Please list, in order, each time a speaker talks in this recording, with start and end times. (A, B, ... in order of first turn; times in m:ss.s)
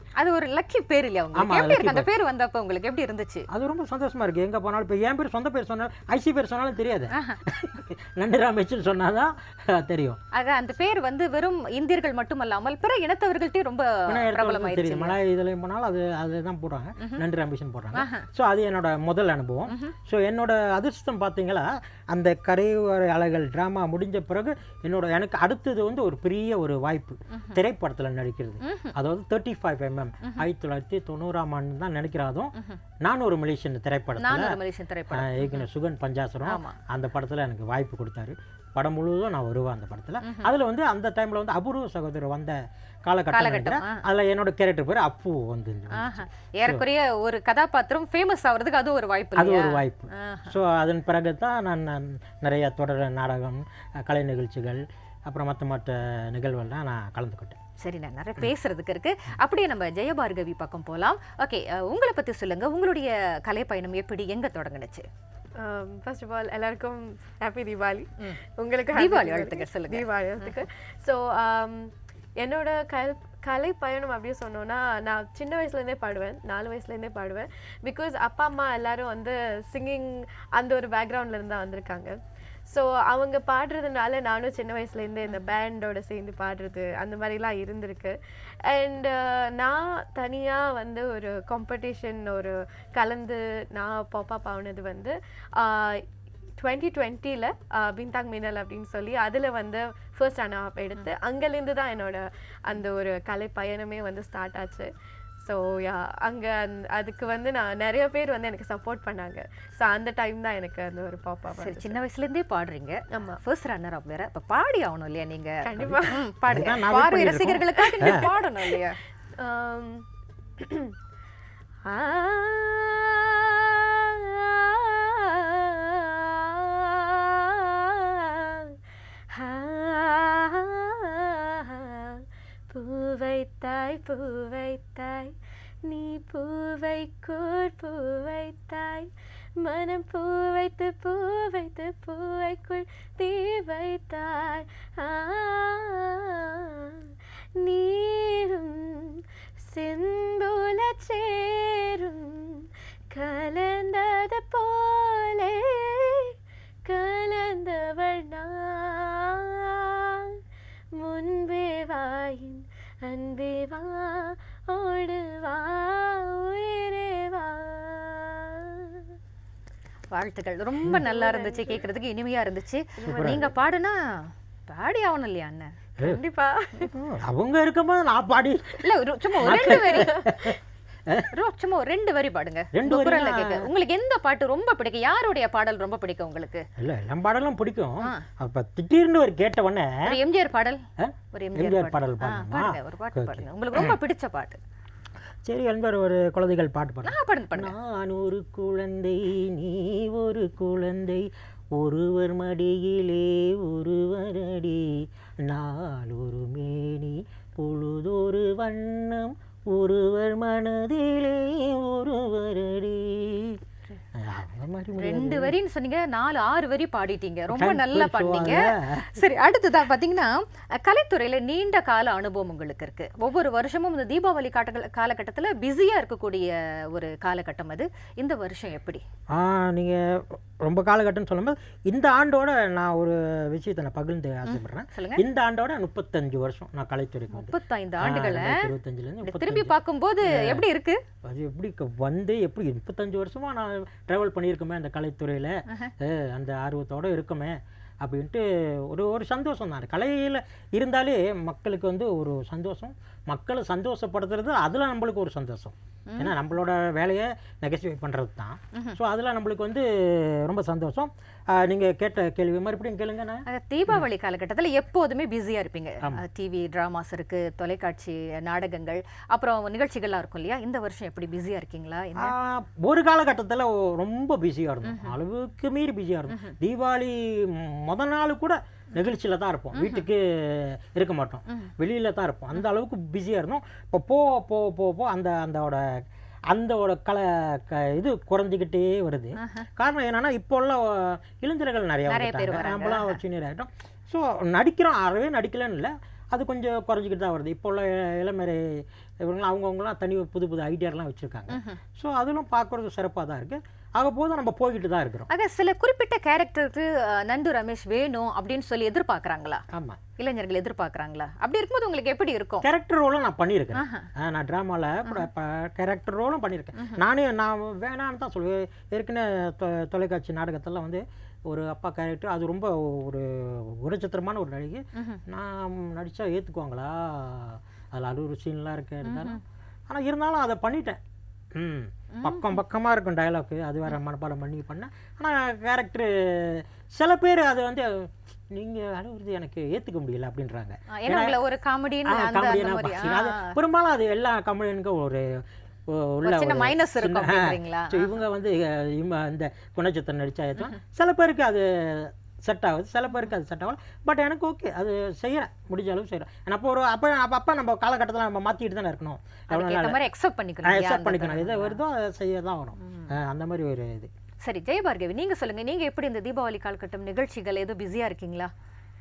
0:00.2-0:03.5 A
0:01.4-0:02.1 B
0:03.5-0:10.2 B
0:07.1-0:07.4 A
0:10.3-0:15.2 A
0:14.1-0:34.6 B
0:17.9-0:18.3 A
0:19.7-0:19.9 A
0:28.6-0:28.9 A
0:34.2-0:35.6 A
0:35.1-0:46.8 B
0:36.4-0:36.8 A
0:40.2-0:40.5 A
0:43.3-0:44.0 A
0:45.9-0:50.6 A
0:49.4-0:57.6 B
0:57.8-1:05.1 A
1:05.6-1:36.1 C
1:09.0-1:10.1 A
1:36.6-1:52.0 C
1:51.6-1:59.0 A
1:53.1-1:53.4 C
1:55.6-1:56.3 C
1:55.8-1:58.2 B
1:57.8-2:00.0 C
2:00.6-2:01.0 C
2:01.9-2:08.8 C
2:09.3-2:15.3 C
2:15.9-2:36.3 C
2:36.9-2:40.4 C
2:41.0-2:49.1 C
2:50.1-2:55.7 A
2:51.0-2:51.8 C
2:53.0-2:53.5 C
2:53.0-2:53.5 B
2:56.0-2:56.9 C
2:56.9-3:01.3 B
2:58.8-3:00.3 A
2:59.7-3:00.4 C
3:01.3-3:06.6 A
3:02.7-3:03.7 B
3:06.8-3:10.2 B
3:10.0-3:14.6 A
3:11.0-3:14.0 B
3:15.4-3:33.6 B
3:17.0-3:17.7 A
3:34.1-3:35.6 B
3:35.0-3:49.0 A
3:37.5-3:39.2 B
3:49.3-3:59.7 B
3:54.5-3:55.2 A
3:57.3-3:58.7 A
3:59.2-4:01.0 A
4:00.2-4:00.7 B
4:01.2-4:24.0 B
4:23.5-4:32.4 A
4:32.2-5:05.3 B
4:34.8-4:35.2 A
4:36.3-4:36.6 A
4:39.8-4:40.0 A
4:49.4-4:49.7 A
4:52.1-4:53.2 A
5:01.5-5:01.8 A
5:05.3-5:09.6 A
5:09.7-5:10.0 B
5:10.2-5:12.7 A
5:12.6-5:31.0 B
5:13.8-5:14.1 A
5:25.0-5:25.2 A
5:29.0-5:29.4 A
5:31.5-5:41.4 B
5:32.1-5:32.6 A
5:40.9-5:43.6 A
5:42.1-6:00.0 B
5:46.2-5:48.0 A
5:59.5-6:01.8 A
6:00.6-6:04.1 B
6:02.8-6:03.1 A
6:04.4-6:08.5 A